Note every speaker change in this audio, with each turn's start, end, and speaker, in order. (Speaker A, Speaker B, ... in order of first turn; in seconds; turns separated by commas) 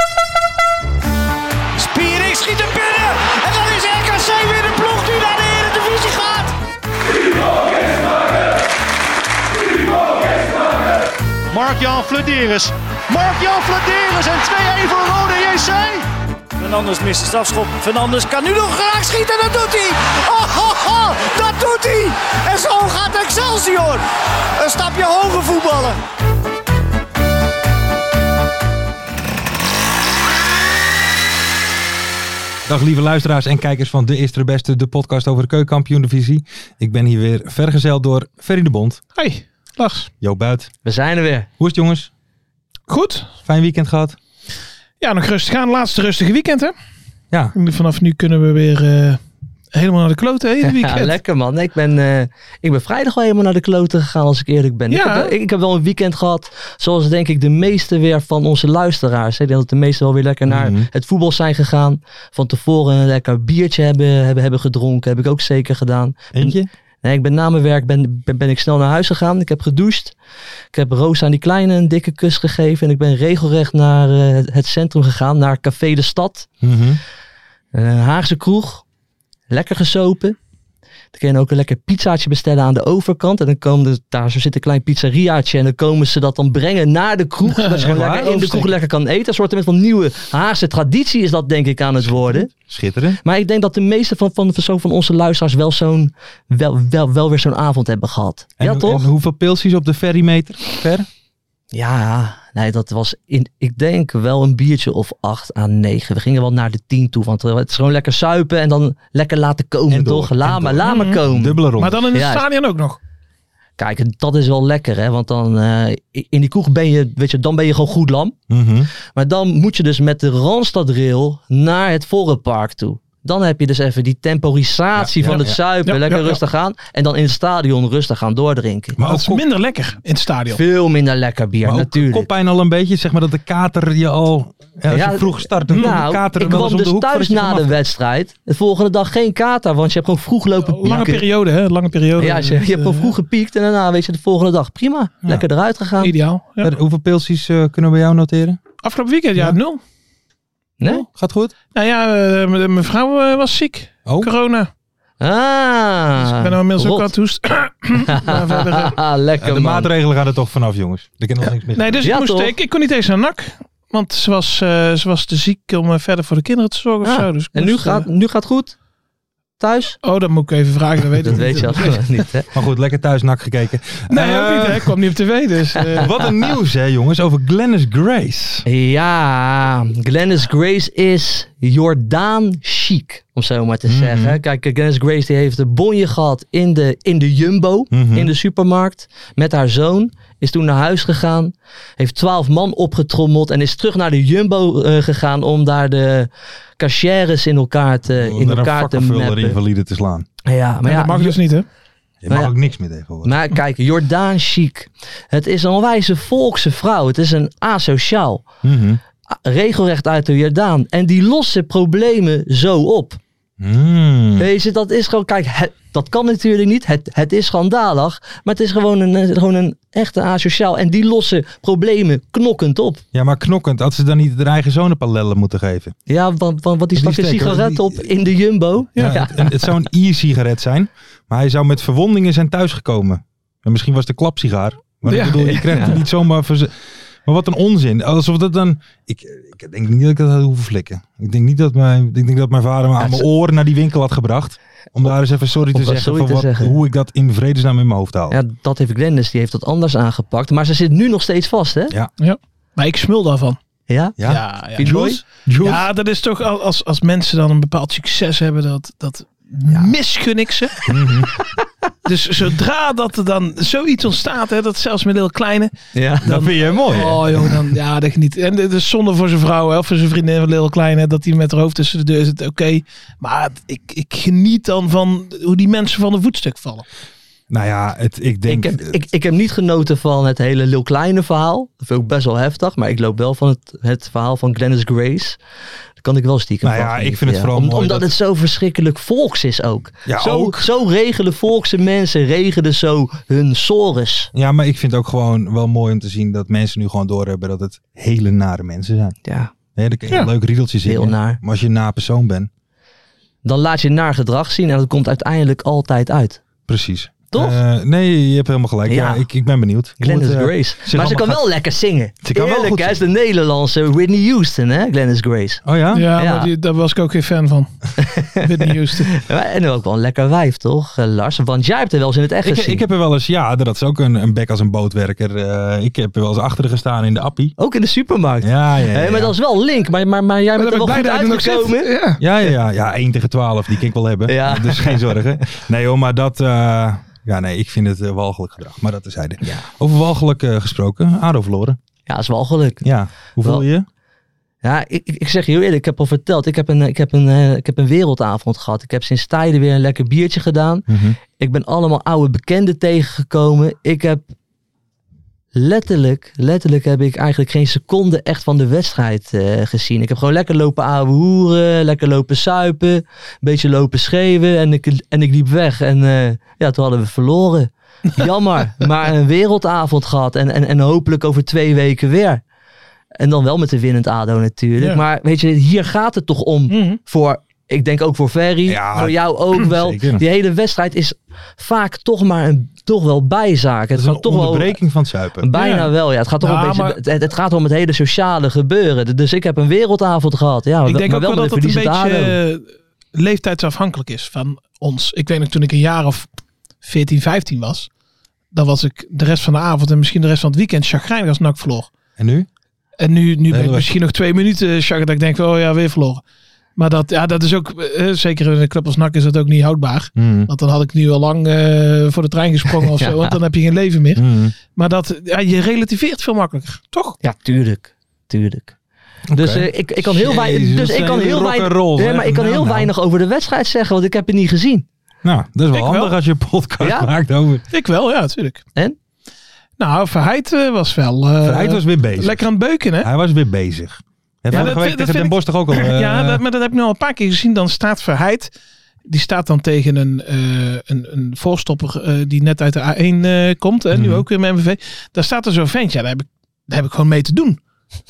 Speaker A: 1.8-6.5, Speaker A: 7.7-8.0, Speaker A: 11.5-16.1, Speaker A: 16.6-24.0, Speaker A: 24.6-26.0, Speaker B: 32.7-39.0, Speaker C: 39.1-40.1, Speaker B: 40.2-40.7, Speaker D: 40.8-41.5, Speaker B: 41.6-42.1, Speaker C: 42.9-43.3, Speaker B: 43.5-44.2, Speaker C: 45.0-46.7, Speaker C: 47.5-49.2, Speaker C: 49.7-51.2, Speaker D: 50.6-70.2, Speaker C: 54.9-55.3, Speaker B: 60.5-60.9, Speaker B: 66.3-66.7, Speaker D: 70.7-76.5, Speaker B: 76.6-77.0, Speaker D: 77.7-78.8, Speaker D: 79.5-80.4, Speaker D: 81.1-92.5, Speaker C: 87.5-88.7, Speaker B: 87.8-88.3, Speaker B: 92.0-93.2, Speaker D: 93.2-99.1, Speaker B: 98.6-101.1, Speaker D: 101.7-111.6, Speaker B: 109.9-112.1, Speaker C: 110.9-111.2, Speaker C: 111.8-113.0, Speaker D: 112.1-112.4, Speaker D: 113.8-118.4, Speaker B: 118.5-118.9, Speaker D: 119.1-129.0, Speaker B: 125.0-125.6, Speaker C: 125.9-126.4, Speaker B: 129.0-129.4, Speaker C: 129.0-130.6, Speaker D: 130.5-132.3, Speaker B: 131.7-137.8, Speaker D: 134.9-141.2, Speaker C: 135.7-136.0, Speaker C: 140.6-143.1, Speaker D: 142.2-146.1, Speaker C: 146.0-146.7, Speaker B: 146.6-148.6, Speaker C: 148.8-149.8, Speaker D: 150.8-151.1, Speaker B: 150.8-151.5, Speaker C: 151.8-154.7, Speaker B: 154.1-154.3, Speaker D: 155.2-157.1, Speaker C: 156.2-159.0, Speaker D: 158.0-159.9, Speaker B: 159.4-162.1, Speaker C: 161.8-168.1, Speaker D: 162.0-162.5, Speaker D: 167.0-168.8, Speaker D: 169.6-170.0, Speaker C: 170.0-172.2, Speaker D: 171.2-172.5, Speaker B: 172.5-174.9, Speaker C: 174.1-176.1, Speaker B: 176.0-178.7, Speaker D: 178.7-199.6, Speaker B: 183.9-184.4, Speaker B: 187.9-188.3, Speaker B: 198.2-200.3, Speaker D: 200.4-201.4, Speaker C: 200.8-201.7, Speaker B: 202.2-203.3, Speaker D: 203.2-208.4, Speaker B: 208.6-209.0, Speaker D: 209.3-213.2, Speaker B: 213.6-214.5, Speaker D: 214.4-223.0, Speaker B: 223.1-225.9, Speaker D: 226.1-229.6, Speaker B: 226.9-228.1, Speaker B: 229.0-248.4, Speaker C: 235.1-235.5, Speaker D: 235.4-236.0, Speaker D: 243.0-243.2, Speaker D: 245.7-246.8, Speaker D: 248.3-251.9, Speaker C: 252.2-253.6, Speaker D: 253.9-254.2, Speaker B: 254.2-255.8, Speaker C: 254.3-260.8, Speaker D: 254.8-255.7, Speaker B: 260.9-261.3, Speaker C: 262.1-265.7, Speaker D: 265.9-266.3, Speaker B: 266.2-267.6, Speaker C: 266.2-276.9, Speaker B: 277.5-278.9, Speaker D: 278.5-285.4, Speaker D: 286.0-294.3, Speaker B: 286.6-288.1, Speaker B: 290.1-290.6, Speaker B: 294.3-299.2, Speaker D: 299.2-299.5, Speaker B: 299.8-302.5, Speaker D: 300.9-301.4, Speaker D: 303.4-306.4, Speaker B: 306.7-311.4, Speaker D: 307.3-307.6, Speaker D: 308.9-309.2, Speaker D: 310.0-315.6, Speaker B: 312.2-313.0, Speaker B: 315.6-316.1, Speaker C: 315.9-317.7, Speaker D: 316.1-316.5, Speaker D: 318.0-322.8, Speaker C: 318.4-319.1, Speaker B: 322.4-327.6, Speaker D: 327.6-331.9, Speaker B: 328.4-329.3, Speaker C: 330.6-332.2, Speaker B: 332.2-341.8, Speaker D: 334.3-335.1, Speaker D: 342.1-342.8, Speaker B: 342.8-343.9, Speaker D: 344.6-354.3, Speaker B: 350.9-351.2, Speaker D: 355.5-372.4, Speaker D: 373.2-384.8, Speaker C: 376.7-377.0, Speaker B: 378.7-380.2, Speaker B: 383.9-385.5, Speaker D: 385.4-392.4, Speaker C: 385.5-387.0, Speaker C: 390.9-396.3, Speaker C: 396.8-397.9, Speaker C: 398.5-401.9, Speaker B: 402.2-402.5, Speaker C: 403.0-406.2, Speaker B: 403.5-403.9, Speaker C: 406.8-417.2, Speaker B: 410.2-410.5, Speaker D: 413.0-413.4, Speaker B: 414.2-414.6, Speaker D: 417.2-418.7, Speaker B: 419.3-422.9, Speaker D: 419.3-424.9, Speaker B: 425.2-427.6, Speaker C: 425.7-426.1, Speaker D: 426.8-427.1, Speaker C: 427.7-428.6, Speaker C: 429.8-433.1, Speaker B: 431.4-432.4, Speaker B: 433.0-436.4, Speaker C: 434.5-438.5, Speaker C: 439.1-447.6, Speaker B: 443.9-444.2